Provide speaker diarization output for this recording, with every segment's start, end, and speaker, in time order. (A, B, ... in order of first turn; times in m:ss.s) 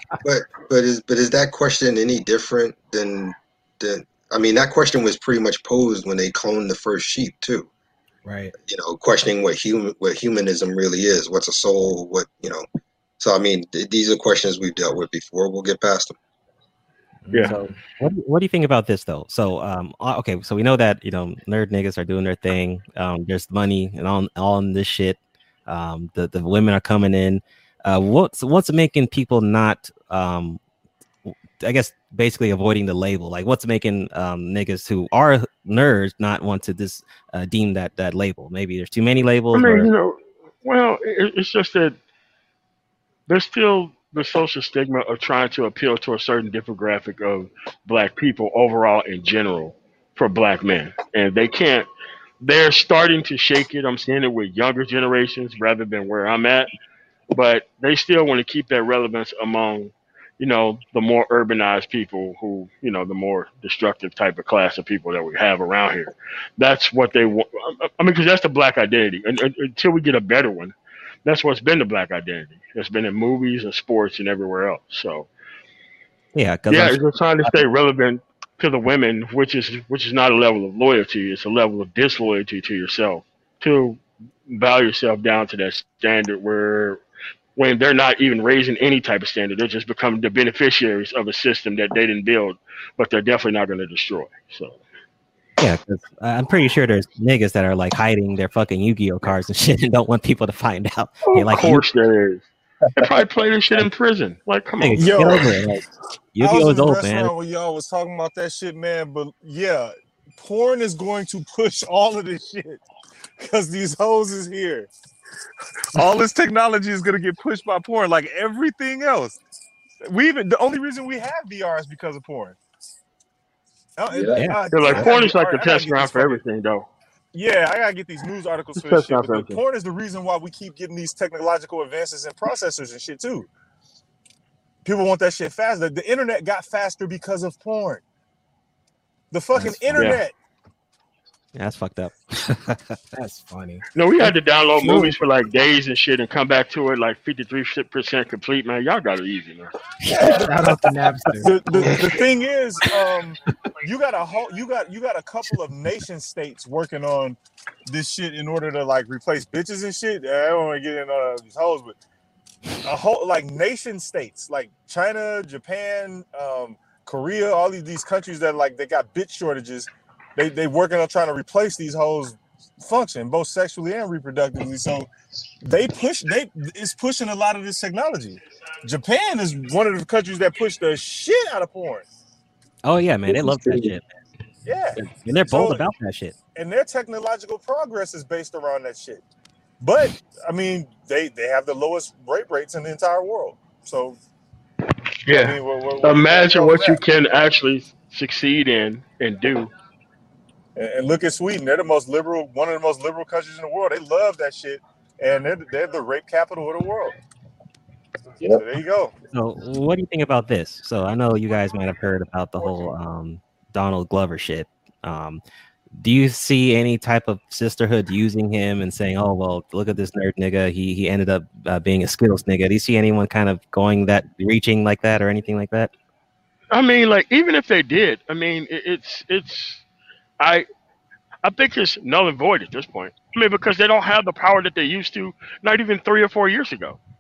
0:00.2-0:07.7 A
0:08.2-0:08.5 B
0:08.6-0:12.6 A
0:13.2-0:16.2 A
0:17.2-0:17.8 B
0:17.4-0:30.6 C
0:31.2-0:39.9 C
0:39.5-0:42.0 D
0:43.3-0:51.9 D
0:52.4-0:56.7 D
0:57.3-1:15.3 D
1:16.3-1:17.6 C
1:16.7-1:27.0 D
1:27.6-1:34.8 D
1:35.6-1:41.9 C
1:41.3-1:42.4 D
1:43.0-1:45.4 D
1:44.8-1:47.3 C
1:45.0-1:45.4 E
1:46.4-1:52.8 E
1:53.4-1:54.9 E
1:55.9-1:59.4 E
2:00.0-2:02.6 E
2:04.0-2:06.4 E
2:04.3-2:05.1 C
2:04.7-2:06.9 D
2:07.3-2:13.5 E
2:08.8-2:09.6 D
2:14.8-2:18.0 E
2:19.3-2:20.3 E
2:19.5-2:20.1 B
2:21.5-2:23.0 C
2:23.1-2:25.2 B
2:23.9-2:29.7 D
2:30.1-2:32.2 B
2:30.1-2:30.8 C
2:30.2-2:30.5 E
2:31.4-2:42.0 E
2:42.8-2:55.1 E
2:55.6-3:02.0 E
3:02.8-3:04.1 C
3:03.4-3:03.8 B
3:04.6-3:05.9 E
3:05.0-3:06.4 C
3:06.5-3:09.2 E
3:09.8-3:14.2 E
3:15.3-3:19.7 D
3:15.3-3:17.0 E
3:20.7-3:27.2 E
3:28.4-3:29.1 E
3:29.3-3:45.9 C
3:46.7-3:49.8 D
3:50.4-3:50.7 D
3:51.4-3:57.0 D